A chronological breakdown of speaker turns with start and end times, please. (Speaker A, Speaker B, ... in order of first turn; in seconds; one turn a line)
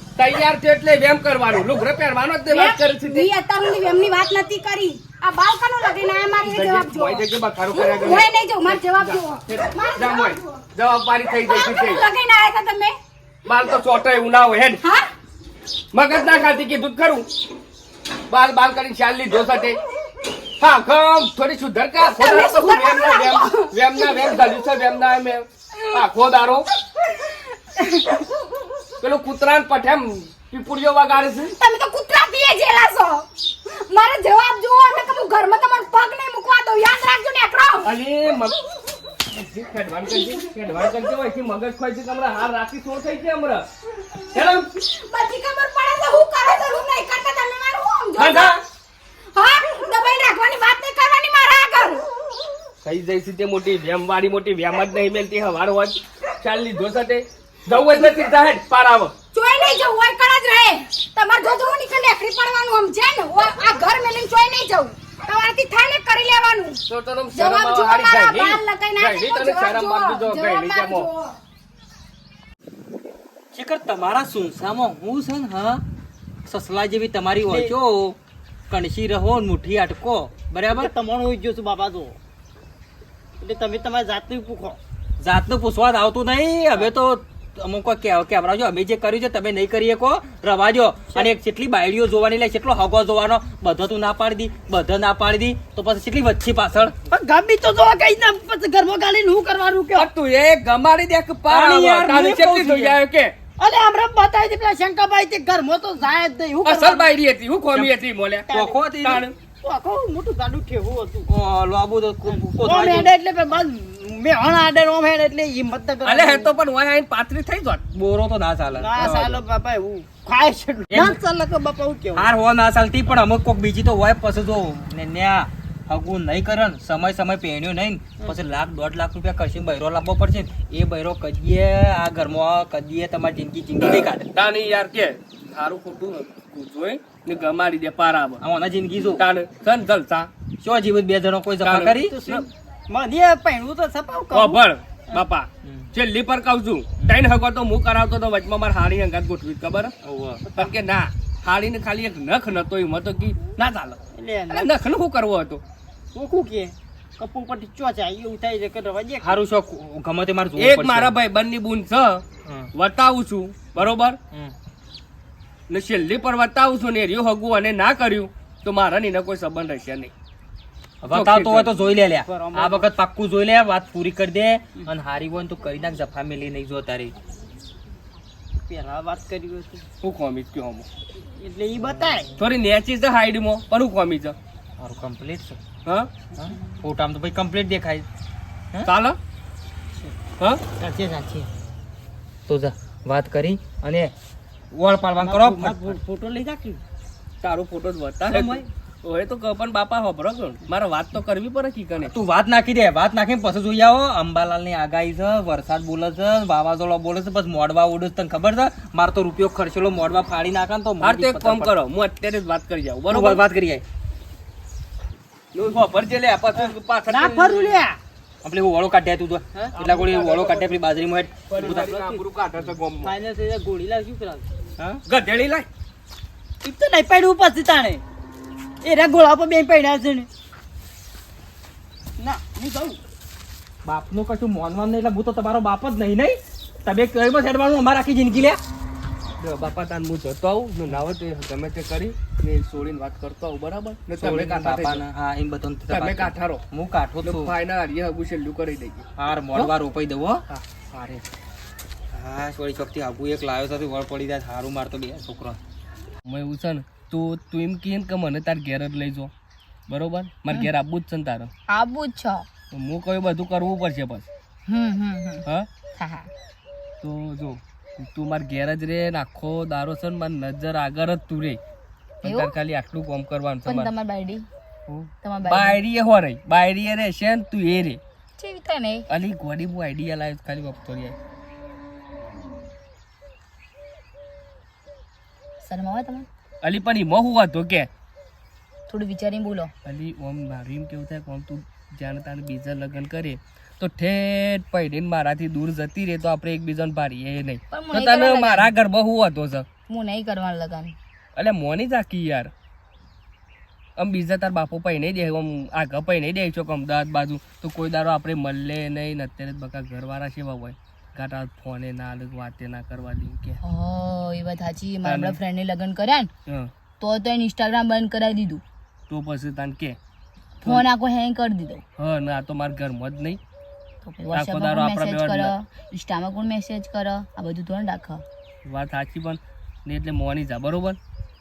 Speaker A: 0.2-3.3
Speaker B: 2.5-10.6
Speaker A: 6.5-12.0
Speaker B: 11.4-13.0
Speaker A: 13.5-14.8
Speaker B: 14.8-15.1
Speaker A: 15.9-17.3
Speaker A: 18.3-19.8
Speaker A: 20.6-26.7
Speaker B: 22.0-24.4
Speaker B: 27.8-28.2
Speaker A: 29.0-31.5
Speaker B: 31.5-37.9
Speaker A: 37.8-38.5
Speaker A: 39.3-43.7
Speaker A: 44.3-44.6
Speaker B: 44.4-48.5
Speaker A: 48.3-48.6
Speaker B: 49.4-52.0
Speaker A: 52.8-59.1
Speaker B: 59.3-66.8
Speaker A: 66.9-71.1
Speaker B: 67.3-71.4
Speaker C: 73.5-75.8
Speaker C: 76.5-78.2
Speaker D: 77.5-77.7
Speaker C: 78.7-80.9
Speaker D: 80.8-82.2
Speaker D: 83.4-84.8
Speaker C: 85.2-97.0
Speaker D: 97.1-100.1
Speaker A: 100.0-103.3
Speaker C: 101.5-103.0
Speaker D: 103.6-107.1
Speaker A: 106.7-108.5
Speaker D: 108.5-108.8
Speaker C: 108.5-109.2
Speaker A: 109.0-109.3
Speaker D: 109.6-111.3
Speaker C: 111.3-113.1
Speaker D: 112.3-116.5
Speaker A: 116.0-117.9
Speaker C: 117.9-119.2
Speaker D: 118.7-122.3
Speaker A: 119.0-119.4
Speaker C: 120.9-121.2
Speaker C: 122.2-134.3
Speaker A: 133.9-138.4
Speaker C: 138.4-139.2
Speaker A: 139.2-140.3
Speaker C: 140.6-142.4
Speaker A: 141.6-142.0
Speaker D: 142.1-144.6
Speaker A: 144.3-149.9
Speaker C: 145.6-145.9
Speaker C: 150.0-150.4
Speaker A: 150.5-154.0
Speaker D: 154.2-154.7
Speaker A: 154.5-155.6
Speaker D: 156.1-159.4
Speaker C: 159.2-161.1
Speaker A: 160.6-162.2
Speaker C: 162.4-162.7
Speaker A: 162.7-164.2
Speaker A: 165.7-170.1
Speaker C: 171.0-177.1
Speaker A: 171.1-171.7
Speaker D: 172.1-172.9
Speaker D: 178.7-179.8
Speaker A: 180.0-180.9
Speaker D: 181.4-182.3
Speaker C: 181.9-182.2
Speaker A: 182.4-184.4
Speaker C: 184.8-185.6
Speaker C: 186.4-188.1
Speaker A: 188.8-189.2
Speaker D: 190.8-191.5
Speaker C: 192.5-194.1
Speaker C: 194.7-196.0
Speaker D: 195.2-196.8
Speaker A: 197.4-202.1
Speaker D: 198.3-198.7
Speaker C: 202.0-211.7
Speaker A: 211.0-213.4
Speaker C: 213.1-213.8
Speaker A: 215.5-217.8
Speaker D: 216.6-218.0
Speaker C: 218.4-221.9
Speaker D: 219.6-220.7
Speaker A: 221.5-223.2
Speaker D: 221.6-222.2
Speaker D: 223.0-224.5
Speaker A: 225.1-225.7
Speaker D: 226.6-228.0
Speaker D: 228.8-230.3
Speaker D: 232.2-233.0
Speaker C: 233.8-238.6
Speaker A: 239.4-245.0
Speaker C: 244.2-247.5
Speaker A: 245.9-246.6
Speaker A: 247.2-249.7
Speaker C: 249.2-251.2
Speaker C: 252.1-255.6
Speaker A: 256.2-259.3
Speaker A: 259.9-261.5
Speaker E: 261.7-262.5
Speaker A: 262.7-264.3
Speaker E: 264.7-266.3
Speaker A: 267.0-271.6
Speaker A: 272.2-273.9
Speaker E: 272.2-272.5
Speaker E: 273.6-274.5
Speaker A: 274.9-278.0
Speaker E: 275.2-275.8
Speaker E: 278.4-279.1
Speaker A: 279.1-281.1
Speaker E: 285.6-286.3
Speaker A: 286.6-287.9
Speaker E: 288.9-289.7
Speaker A: 289.9-299.6
Speaker E: 297.7-298.7
Speaker E: 299.9-300.9
Speaker A: 301.4-302.5
Speaker A: 304.0-313.6
Speaker E: 313.6-316.3
Speaker A: 315.0-315.4
Speaker E: 317.0-318.6
Speaker A: 319.1-320.0
Speaker E: 320.6-321.8
Speaker A: 322.0-323.4
Speaker E: 324.0-328.2
Speaker A: 324.3-325.5
Speaker A: 328.6-331.0